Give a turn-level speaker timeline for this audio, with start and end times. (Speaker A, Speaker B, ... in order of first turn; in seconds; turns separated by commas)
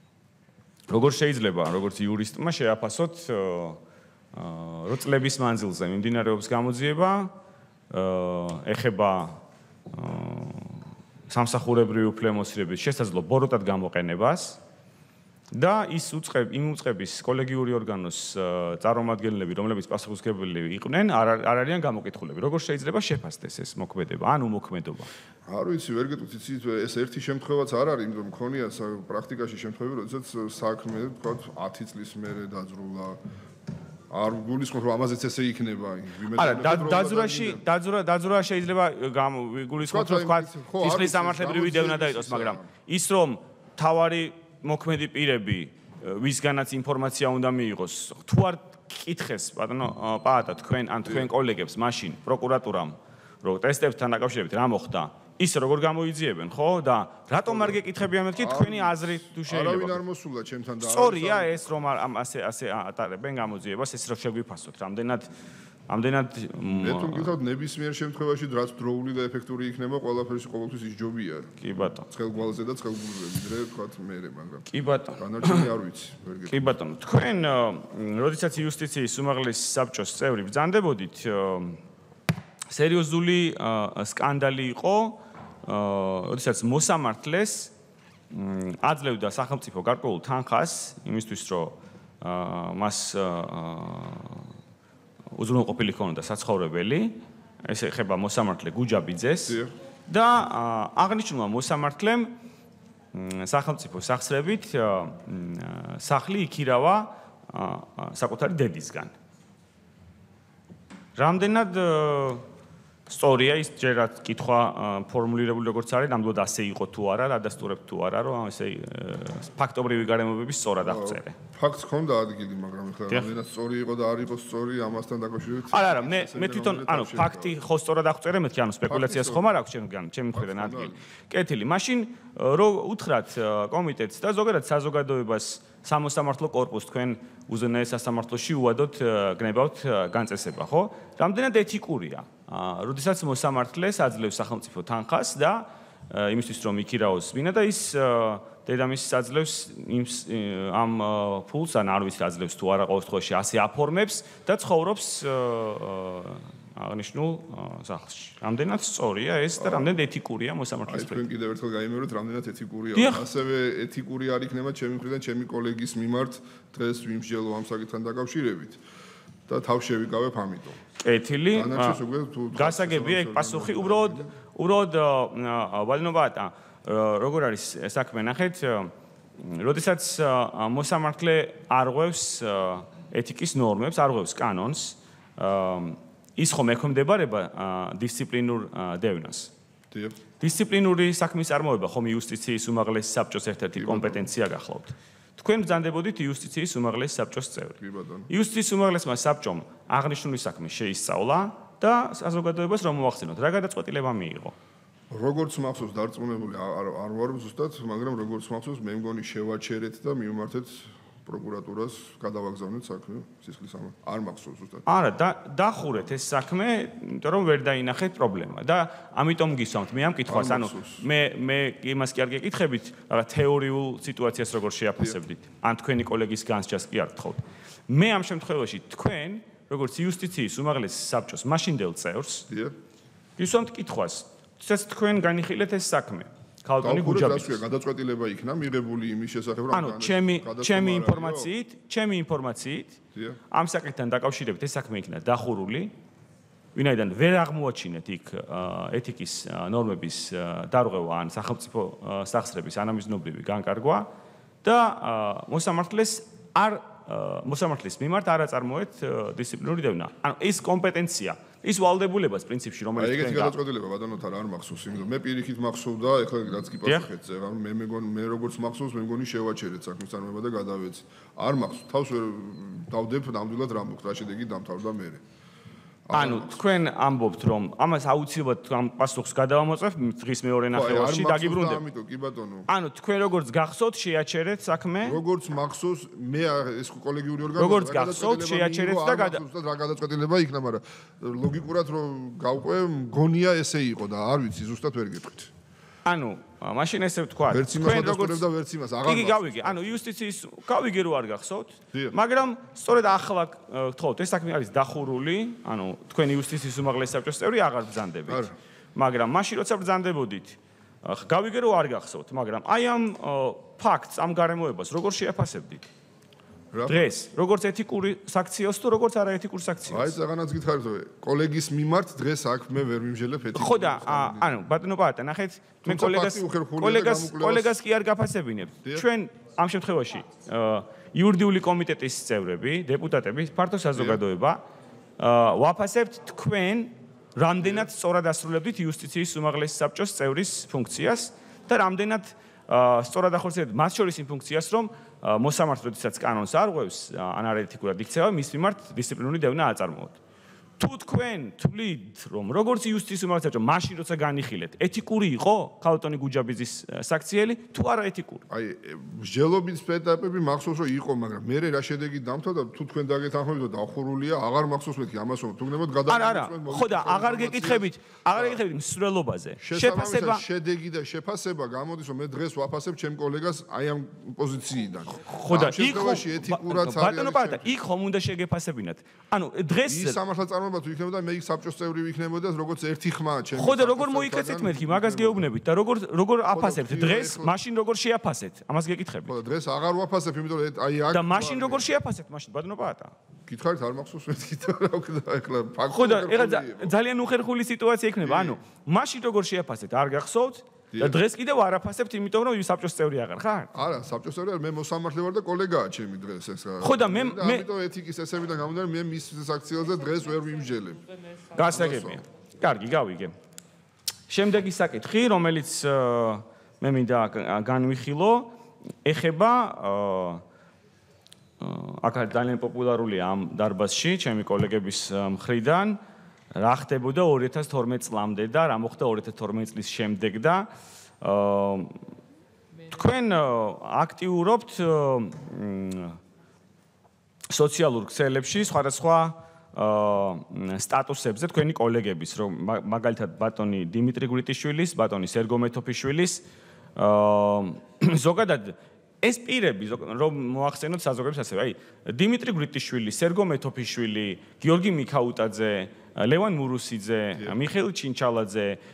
Speaker A: 0.9-3.8, Speaker A: 4.3-7.3, Speaker A: 7.9-9.4, Speaker A: 9.9-14.6, Speaker A: 15.5-25.1, Speaker B: 25.5-33.2, Speaker B: 34.1-37.6, Speaker A: 36.3-60.0, Speaker B: 39.8-42.7, Speaker B: 57.5-57.8, Speaker B: 58.4-61.5, Speaker A: 60.8-65.3, Speaker A: 65.9-67.3, Speaker B: 66.8-71.5, Speaker A: 71.6-72.0, Speaker B: 72.1-76.5, Speaker A: 74.7-75.7, Speaker A: 76.5-81.8, Speaker A: 82.7-87.7, Speaker A: 88.3-94.5, Speaker A: 95.3-102.3, Speaker A: 103.1-109.1, Speaker A: 111.2-112.4, Speaker A: 113.1-121.3, Speaker B: 120.8-127.5, Speaker A: 125.7-161.2, Speaker B: 128.9-129.4, Speaker B: 130.3-131.0, Speaker B: 159.6-159.9, Speaker B: 160.9-168.8, Speaker A: 162.9-163.2, Speaker B: 169.5-170.8, Speaker A: 171.0-172.0, Speaker B: 171.5-174.3, Speaker A: 172.5-189.5, Speaker B: 189.9-190.2, Speaker A: 190.4-204.5, Speaker B: 193.8-194.2, Speaker B: 197.8-198.3, Speaker B: 205.1-214.8, Speaker A: 214.8-232.4, Speaker B: 220.3-221.0, Speaker B: 232.5-232.7, Speaker A: 233.4-237.6, Speaker B: 236.8-241.5, Speaker A: 239.7-243.0, Speaker A: 243.5-245.9, Speaker A: 246.7-254.1, Speaker A: 254.6-263.5, Speaker B: 262.9-275.2, Speaker B: 276.1-276.6, Speaker A: 276.1-281.8, Speaker B: 280.7-282.7, Speaker A: 282.7-285.2, Speaker B: 285.0-295.5, Speaker A: 287.6-289.4, Speaker A: 296.0-298.4, Speaker B: 297.5-299.8, Speaker A: 299.0-315.9, Speaker B: 308.3-308.5, Speaker B: 316.7-317.1, Speaker A: 316.9-320.2, Speaker B: 319.9-324.5, Speaker A: 323.5-334.6, Speaker B: 325.8-327.7, Speaker B: 333.9-334.2, Speaker A: 335.2-350.2, Speaker B: 337.6-337.9, Speaker A: 350.8-358.4, Speaker B: 358.5-368.6, Speaker A: 366.1-370.4, Speaker B: 369.6-377.7, Speaker A: 375.2-380.2, Speaker B: 379.9-385.5, Speaker A: 383.5-389.3, Speaker B: 386.5-387.5, Speaker B: 389.2-391.8, Speaker A: 391.1-393.1, Speaker B: 393.5-396.9, Speaker A: 395.9-403.7, Speaker B: 398.2-398.6, Speaker B: 403.7-411.0, Speaker A: 406.8-407.7, Speaker A: 411.5-413.3, Speaker B: 411.6-412.2, Speaker A: 414.3-418.5, Speaker A: 419.0-420.4, Speaker A: 421.6-426.0, Speaker A: 426.5-430.7, Speaker A: 431.2-432.0, Speaker A: 432.9-436.2, Speaker A: 437.5-446.4, Speaker A: 446.9-458.8